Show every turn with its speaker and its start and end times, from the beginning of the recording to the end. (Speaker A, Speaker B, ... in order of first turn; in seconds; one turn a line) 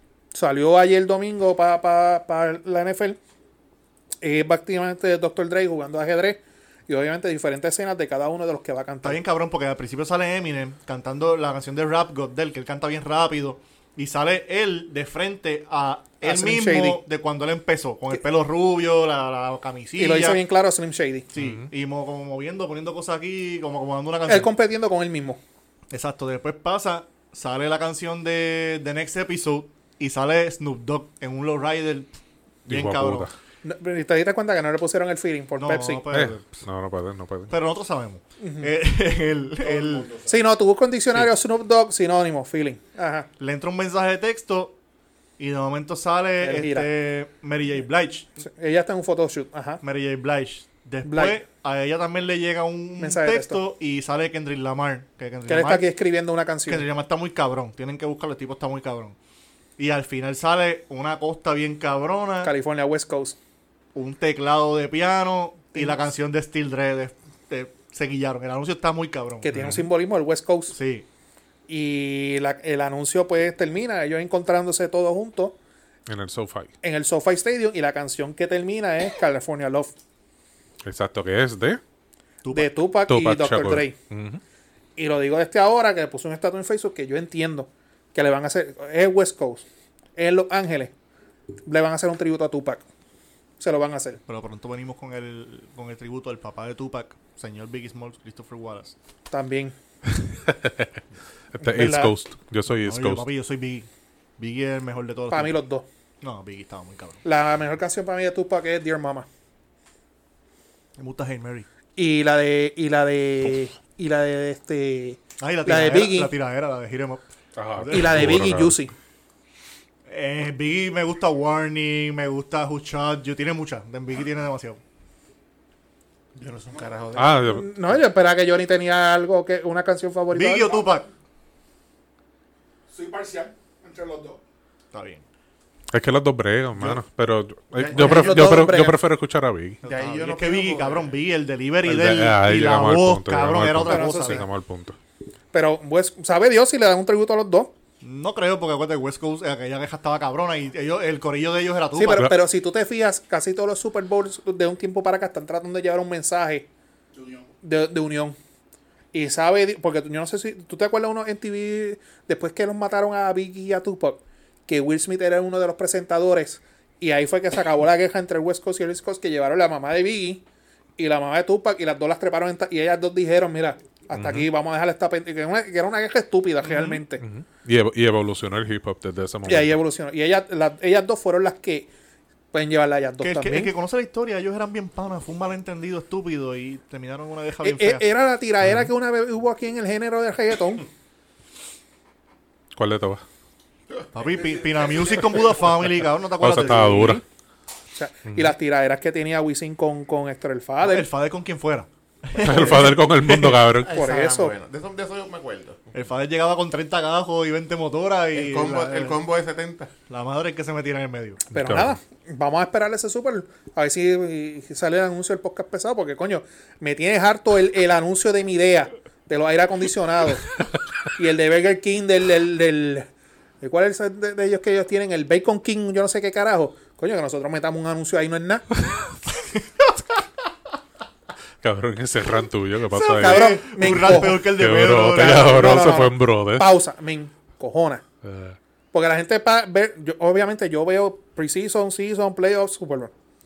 Speaker A: 0.3-3.2
Speaker A: 4.2-9.2
Speaker B: 9.0-20.4
Speaker A: 16.2-17.0
Speaker A: 20.0-21.3
Speaker B: 21.3-24.5
Speaker C: 21.3-21.7
Speaker A: 24.3-25.4
Speaker B: 25.9-32.1
Speaker B: 32.6-33.3
Speaker C: 32.7-33.3
Speaker A: 33.6-36.0
Speaker B: 35.6-36.6
Speaker C: 36.1-37.5
Speaker B: 37.5-40.1
Speaker A: 38.4-38.7
Speaker D: 39.6-40.3
Speaker A: 40.2-43.3
Speaker B: 43.4-44.8
Speaker B: 45.4-48.3
Speaker A: 46.4-46.9
Speaker A: 48.4-49.8
Speaker B: 49.8-55.9
Speaker A: 51.0-51.4
Speaker A: 53.0-53.6
Speaker A: 55.5-56.8
Speaker B: 56.7-59.1
Speaker B: 59.8-62.5
Speaker A: 62.4-63.4
Speaker B: 63.9-69.5
Speaker A: 65.7-66.0
Speaker A: 69.4-70.7
Speaker C: 69.5-69.8
Speaker B: 70.7-71.0
Speaker A: 71.7-75.5
Speaker C: 76.1-76.7
Speaker A: 76.8-79.9
Speaker C: 80.8-81.8
Speaker B: 82.4-82.8
Speaker A: 82.5-83.9
Speaker C: 83.1-84.4
Speaker A: 85.0-89.6
Speaker A: 90.2-90.9
Speaker A: 91.7-92.8
Speaker A: 93.6-94.2
Speaker B: 94.2-98.9
Speaker A: 99.3-99.7
Speaker C: 100.5-100.9
Speaker C: 101.6-103.2
Speaker A: 101.6-102.1
Speaker B: 102.8-105.5
Speaker A: 105.3-105.8
Speaker B: 106.2-107.2
Speaker A: 107.2-109.3
Speaker B: 111.0-111.7
Speaker A: 112.0-116.3
Speaker B: 115.4-117.2
Speaker C: 117.5-118.7
Speaker B: 117.8-118.5
Speaker A: 117.9-118.9
Speaker B: 120.1-124.8
Speaker E: 126.3-127.7
Speaker C: 127.2-127.6
Speaker A: 127.4-130.9
Speaker B: 130.3-131.1
Speaker D: 132.9-134.4
Speaker B: 134.9-135.2
Speaker C: 135.9-139.8
Speaker E: 137.8-138.4
Speaker A: 137.9-139.0
Speaker E: 139.8-141.1
Speaker B: 139.8-144.4
Speaker C: 141.8-144.9
Speaker A: 143.8-144.5
Speaker A: 145.5-147.7
Speaker B: 148.0-152.3
Speaker A: 151.9-156.7
Speaker D: 157.1-157.5
Speaker A: 157.6-158.3
Speaker A: 159.1-170.4
Speaker A: 171.0-177.2
Speaker C: 174.1-174.5
Speaker B: 176.6-177.0
Speaker C: 177.2-179.8
Speaker A: 179.4-181.9
Speaker A: 182.5-183.7
Speaker B: 183.2-188.1
Speaker A: 187.6-190.8
Speaker C: 188.6-188.9
Speaker C: 192.7-193.2
Speaker B: 194.1-197.2
Speaker C: 196.4-197.2
Speaker A: 197.9-201.1
Speaker C: 198.3-198.5
Speaker B: 200.8-203.6
Speaker C: 202.3-203.9
Speaker E: 203.7-205.9
Speaker A: 203.9-204.5
Speaker B: 205.9-209.2
Speaker E: 208.3-209.9
Speaker B: 210.1-211.4
Speaker A: 211.5-220.5
Speaker C: 211.5-212.0
Speaker A: 221.2-223.1
Speaker A: 223.6-228.6
Speaker C: 231.6-236.7
Speaker A: 232.9-234.5
Speaker B: 233.1-235.7
Speaker A: 235.1-238.0
Speaker C: 238.2-238.6
Speaker A: 238.9-243.1